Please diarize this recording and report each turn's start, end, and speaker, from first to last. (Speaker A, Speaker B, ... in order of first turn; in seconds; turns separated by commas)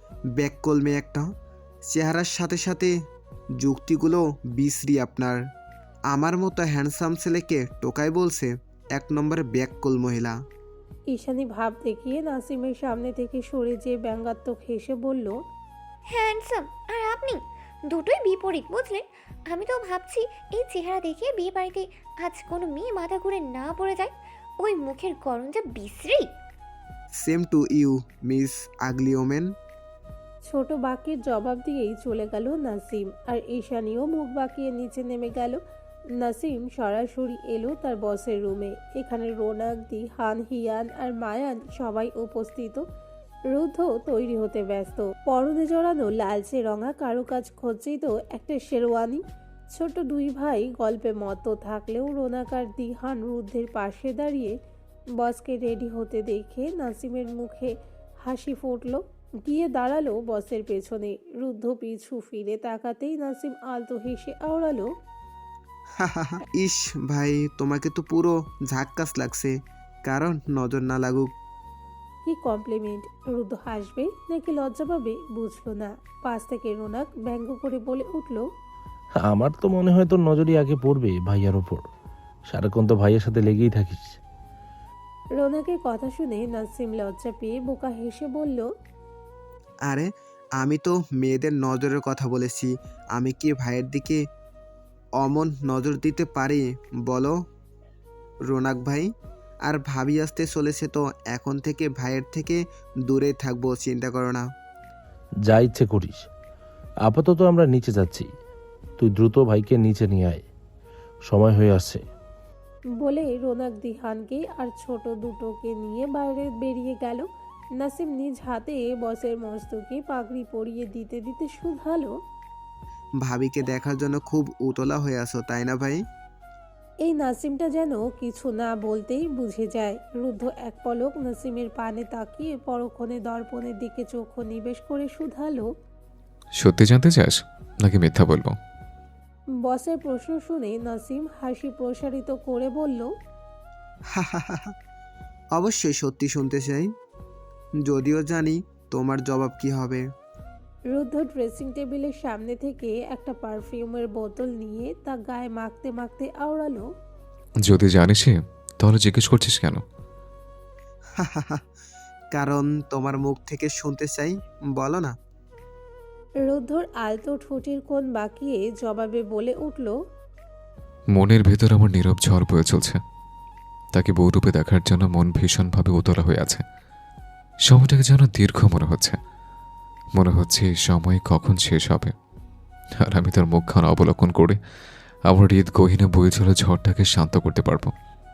Speaker A: 0.4-1.3, Speaker A: 1.9-2.9, Speaker A: 3.6-5.4, Speaker A: 6.1-10.4, Speaker B: 11.1-15.3, Speaker C: 16.1-26.3, Speaker A: 27.2-29.5, Speaker B: 30.5-35.6, Speaker B: 36.2-42.8, Speaker B: 43.5-49.2, Speaker B: 49.7-54.5, Speaker B: 55.2-64.9, Speaker A: 66.0-71.3, Speaker B: 72.2-78.5, Speaker D: 79.2-81.8, Speaker D: 82.5-84.2, Speaker B: 85.4-88.7, Speaker A: 89.9-94.2, Speaker A: 95.2-97.4, Speaker A: 98.5-99.1, Speaker A: 99.6-104.5, Speaker D: 105.4-106.3, Speaker D: 107.0-108.3, Speaker D: 109.0-110.4, Speaker D: 111.3-112.0, Speaker B: 113.0-117.3, Speaker B: 117.8-122.1, Speaker A: 123.2-126.0, Speaker B: 127.0-135.7, Speaker E: 136.6-138.6, Speaker B: 139.6-143.1, Speaker A: 144.1-144.7, Speaker A: 145.5-146.9, Speaker A: 147.8-150.0, Speaker B: 150.9-156.8, Speaker E: 157.6-159.8, Speaker A: 161.1-161.7, Speaker A: 162.3-165.1, Speaker B: 166.4-169.9, Speaker E: 171.1-173.0, Speaker E: 173.9-176.6, Speaker E: 177.7-179.2, Speaker E: 180.2-182.1, Speaker E: 183.0-184.6, Speaker E: 185.3-187.9